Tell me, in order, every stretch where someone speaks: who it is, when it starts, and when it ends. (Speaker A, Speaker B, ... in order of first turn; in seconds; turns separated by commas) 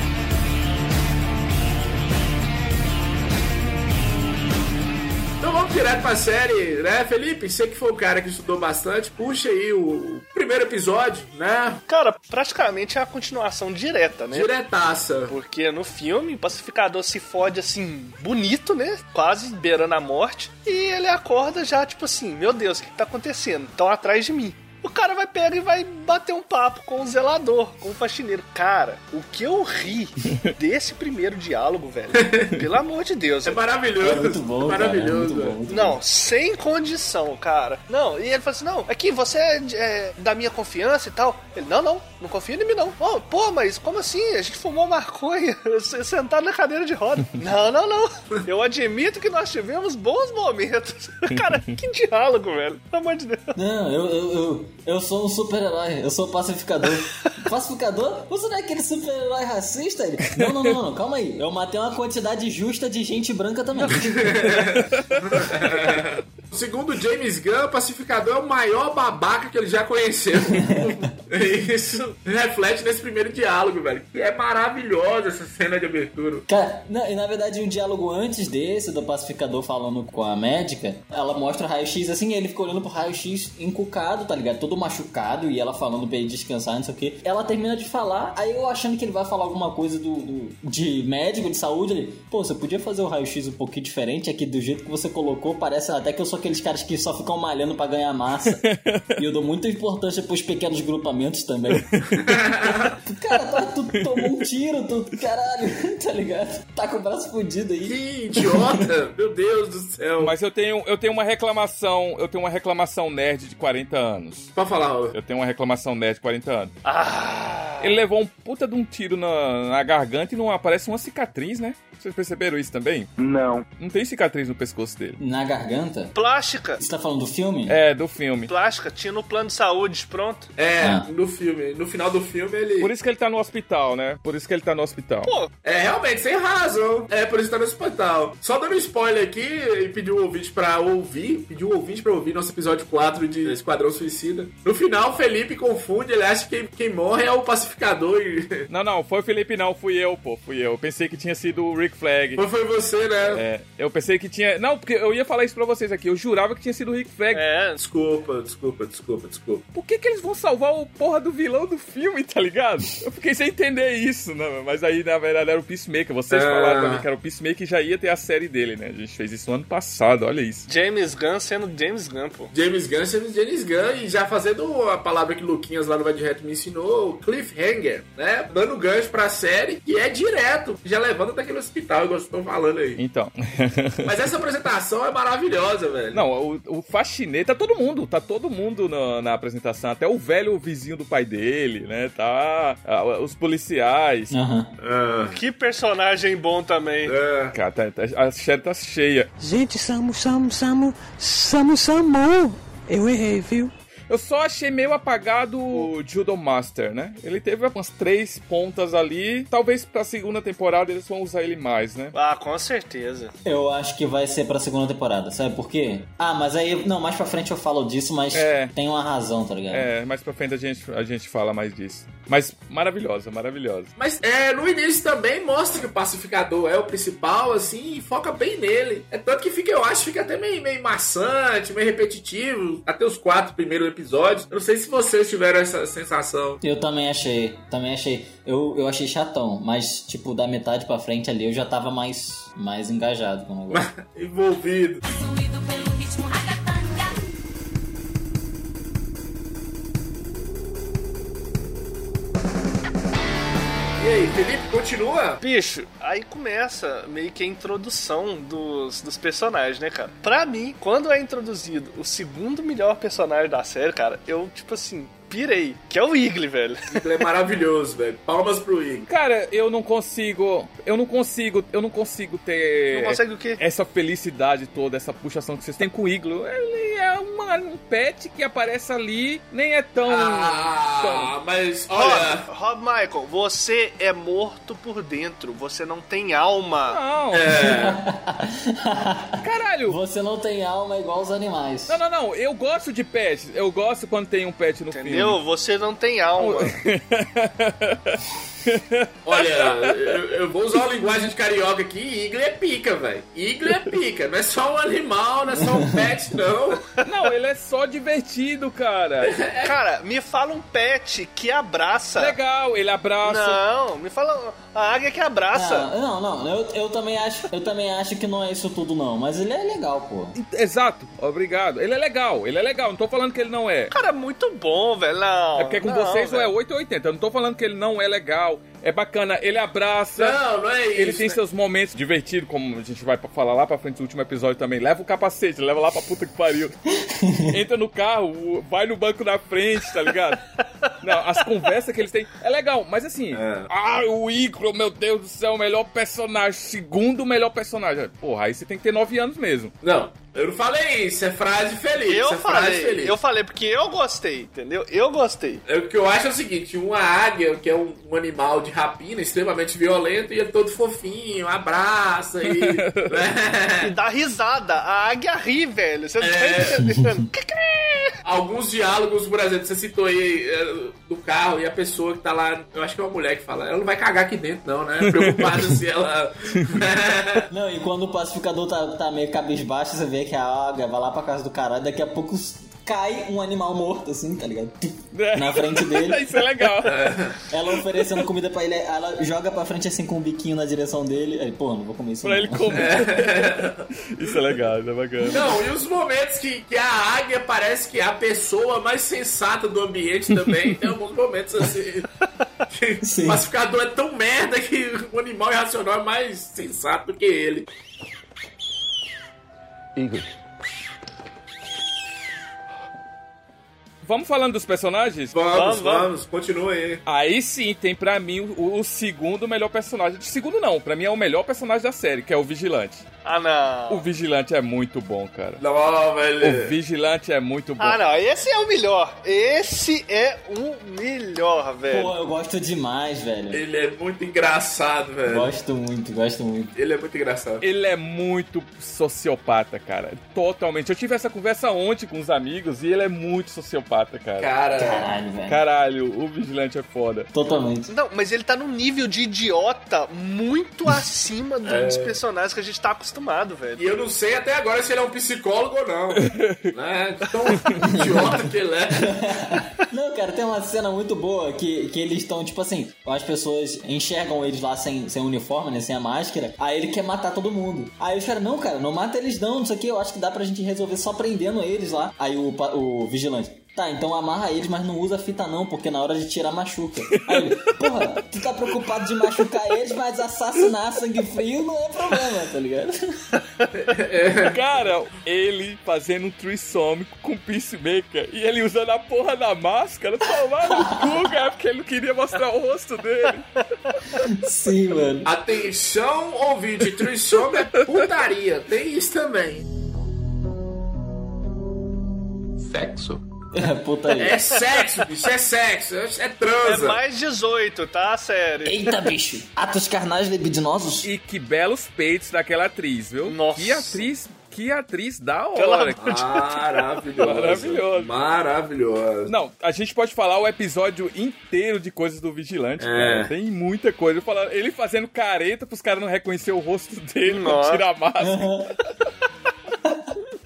Speaker A: 5.4-11.8, Speaker B: 11.9-14.5, Speaker A: 14.3-15.3, Speaker B: 15.3-33.6, Speaker A: 32.2-32.5, Speaker A: 33.4-35.6, Speaker C: 34.0-36.0, Speaker B: 35.7-53.5, Speaker D: 51.3-51.7, Speaker C: 53.5-64.4, Speaker D: 60.4-60.7, Speaker A: 63.9-76.4, Speaker D: 64.8-65.4, Speaker C: 70.6-70.9, Speaker C: 76.5-98.6, Speaker D: 98.4-99.1, Speaker C: 99.2-101.9, Speaker D: 101.7-102.1, Speaker A: 102.2-102.9, Speaker C: 103.0-108.0, Speaker D: 103.9-104.4, Speaker A: 107.8-110.3, Speaker D: 110.2-114.5, Speaker A: 114.5-115.1, Speaker D: 115.1-116.7, Speaker B: 116.8-117.9, Speaker D: 117.8-123.1, Speaker D: 123.8-125.2, Speaker C: 125.2-126.1, Speaker B: 126.1-126.8, Speaker C: 126.8-127.8, Speaker D: 127.7-128.5, Speaker B: 128.5-130.5, Speaker A: 130.6-132.9, Speaker C: 130.8-131.1, Speaker D: 132.8-135.3, Speaker A: 135.6-148.7, Speaker D: 148.7-152.4, Speaker A: 152.3-153.4, Speaker D: 153.3-157.4, Speaker B: 157.3-157.8, Speaker A: 157.8-159.6, Speaker D: 159.7-170.7, Speaker A: 166.3-167.1, Speaker B: 170.7-172.5, Speaker A: 172.5-183.0, Speaker D: 183.0-184.1, Speaker A: 184.0-186.2, Speaker D: 186.1-194.3, Speaker C: 194.3-194.7, Speaker A: 194.8-195.4, Speaker B: 195.3-197.1, Speaker A: 197.0-197.5, Speaker D: 197.5-199.3, Speaker E: 199.4-203.7, Speaker D: 204.1-212.1, Speaker B: 212.1-213.3, Speaker C: 213.4-219.9, Speaker D: 218.3-218.7, Speaker D: 219.7-223.9, Speaker A: 224.0-236.6, Speaker C: 236.6-243.8, Speaker A: 243.7-245.0, Speaker A: 254.0-255.4, Speaker B: 255.4-267.0, Speaker A: 266.9-269.1, Speaker D: 269.1-281.3, Speaker B: 272.9-273.6, Speaker A: 280.1-282.4, Speaker B: 281.9-287.0, Speaker D: 286.9-287.8, Speaker A: 287.3-288.0, Speaker C: 287.6-292.0, Speaker D: 289.4-290.0, Speaker D: 291.9-295.4, Speaker B: 294.9-296.7, Speaker D: 296.4-300.1, Speaker A: 299.2-306.8, Speaker D: 307.0-309.3, Speaker A: 309.2-309.8, Speaker B: 309.6-312.3, Speaker D: 312.1-313.6, Speaker B: 313.2-315.9, Speaker C: 315.5-320.3, Speaker D: 320.3-323.9, Speaker B: 323.9-326.5, Speaker D: 325.6-330.4, Speaker A: 330.1-331.4, Speaker D: 330.9-336.7, Speaker C: 337.1-337.5, Speaker D: 337.5-340.4, Speaker D: 341.0-349.7, Speaker A: 343.3-343.7, Speaker A: 349.8-353.2, Speaker B: 352.1-355.6, Speaker A: 355.6-363.9, Speaker D: 362.4-363.2, Speaker B: 363.8-368.1, Speaker A: 366.2-366.8, Speaker A: 368.2-377.4, Speaker D: 375.0-375.7, Speaker D: 376.6-376.8, Speaker C: 377.5-386.2, Speaker D: 385.1-387.1, Speaker A: 386.8-387.3, Speaker C: 387.5-392.9, Speaker D: 387.9-388.2, Speaker D: 392.2-395.6, Speaker A: 392.8-393.8, Speaker A: 395.3-402.1, Speaker A: 402.7-407.6, Speaker C: 403.0-403.4, Speaker D: 414.0-415.3, Speaker A: 415.3-417.0, Speaker B: 415.5-416.1, Speaker D: 417.1-423.1, Speaker B: 423.2-424.0, Speaker D: 423.9-425.6, Speaker A: 425.6-426.7, Speaker D: 426.4-428.0, Speaker B: 427.8-432.1, Speaker C: 431.9-433.6, Speaker A: 433.5-435.5, Speaker C: 435.2-436.7, Speaker A: 436.7-437.6, Speaker D: 437.6-444.5, Speaker A: 444.4-445.1, Speaker C: 444.8-445.6, Speaker D: 445.5-447.3, Speaker C: 447.3-447.9, Speaker B: 447.9-453.8, Speaker A: 451.6-452.2, Speaker A: 453.8-459.2, Speaker D: 456.1-456.7, Speaker C: 457.9-458.3, Speaker C: 459.4-482.9, Speaker D: 477.2-477.5, Speaker A: 483.8-484.6, Speaker D: 484.4-493.4, Speaker C: 494.2-495.3, Speaker A: 495.2-499.6, Speaker A: 502.6-503.2, Speaker C: 503.5-504.4, Speaker A: 504.2-507.0, Speaker B: 506.6-509.0, Speaker C: 508.6-511.1, Speaker D: 511.0-516.0, Speaker B: 513.2-514.0, Speaker B: 515.5-516.8, Speaker A: 516.0-519.3, Speaker D: 517.2-518.1, Speaker D: 519.2-528.5, Speaker A: 522.8-523.3, Speaker B: 527.3-527.8, Speaker C: 528.2-528.7